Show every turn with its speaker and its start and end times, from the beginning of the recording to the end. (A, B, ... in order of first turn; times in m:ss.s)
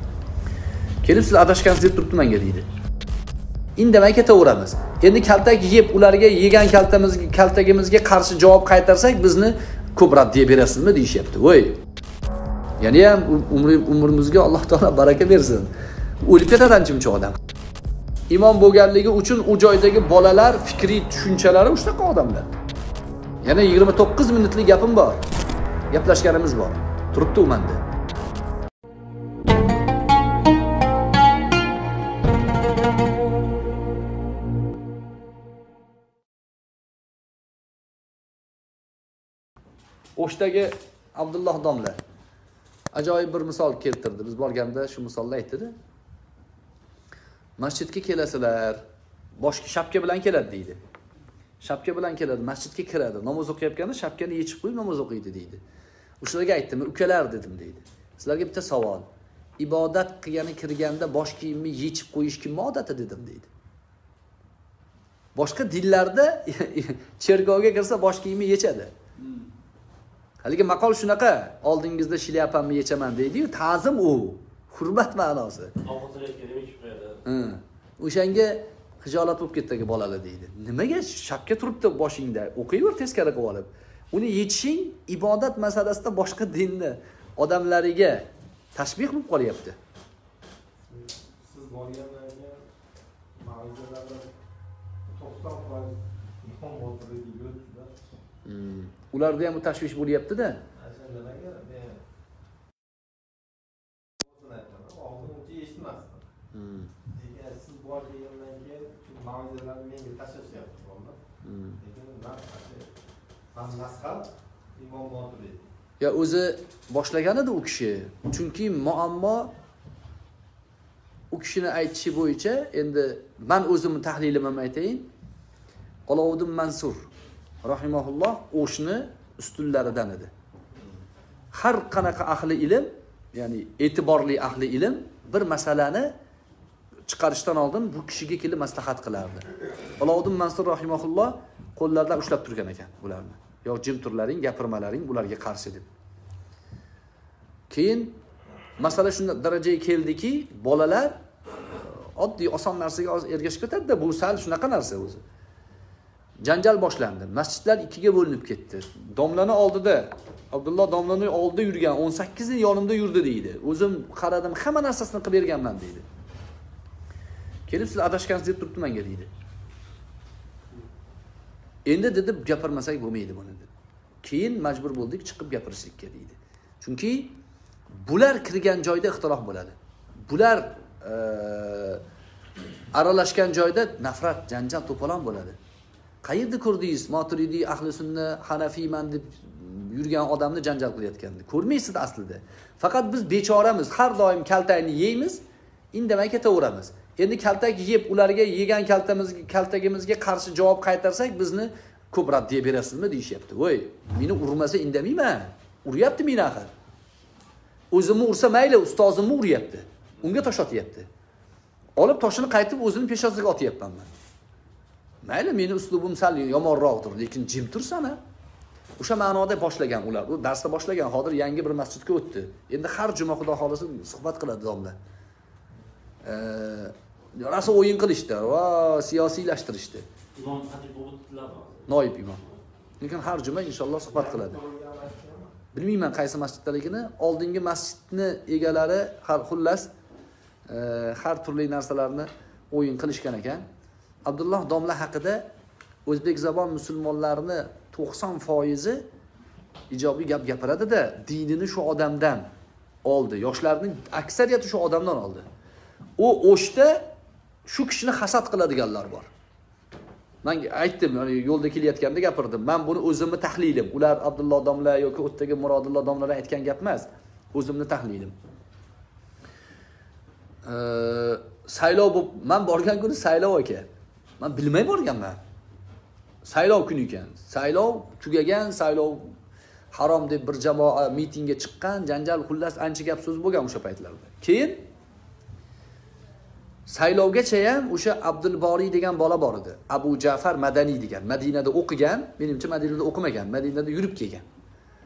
0:01.0-0:02.7 A
0:03.8-0:11.8 A
0:12.8-0:15.7 A
0:16.2-0:17.4 A
0:18.3-0:22.5 A
0:23.4-0:25.2 A
0:25.9-0:27.8 A
0:40.2-0:42.0 A
0:42.9-0:45.7 A
0:47.6-0:48.8 A
0:49.4-0:50.8 A
0:51.6-0:55.6 A
0:56.2-0:59.0 A
0:59.6-1:03.5 A
1:05.3-1:08.9 A
1:10.4-1:15.7 A
1:15.8-1:17.2 B
1:17.2-1:29.8 A
1:30.9-1:32.6 C
1:33.3-1:34.3 C
1:35.1-1:37.9 C
1:38.4-1:40.6 A
1:40.7-1:42.0 C
1:44.2-1:46.2 C
1:46.5-1:46.9 A
1:47.1-1:51.2 C
1:51.4-1:51.8 A
1:51.8-1:52.9 C
1:53.5-1:55.6 C
1:56.0-1:59.5 A
2:01.3-2:05.1 A
2:06.1-2:07.0 A
2:07.6-2:10.3 A
2:11.5-2:16.1 A
2:17.0-2:19.4 A
2:20.0-2:25.9 A
2:27.7-2:28.2 A
2:28.8-2:31.2 A
2:32.0-2:35.2 A
2:36.4-2:46.0 A
2:47.7-2:49.3 A
2:51.8-2:53.7 A
2:54.2-2:57.4 A
2:57.9-3:02.0 A
3:02.9-3:05.6 A
3:06.2-3:15.4 A
3:15.9-3:26.7 A
3:27.9-3:31.1 A
3:32.0-3:34.1 A
3:35.2-3:38.2 A
3:39.0-3:45.0 A
3:46.2-3:50.0 A
3:50.4-3:51.8 B
3:51.9-3:52.4 A
3:53.0-3:54.6 A
3:54.1-3:55.5 C
3:55.7-3:59.9 A
4:00.7-4:03.6 A
4:04.2-4:05.5 A
4:06.0-4:09.0 A
4:09.9-4:12.4 A
4:13.0-4:15.4 A
4:16.2-4:17.1 A
4:17.6-4:19.3 A
4:20.4-4:28.3 A
4:30.6-4:33.9 A
4:34.4-4:35.4 A
4:36.4-4:39.3 A
4:39.9-4:44.8 A
4:46.9-4:54.4 A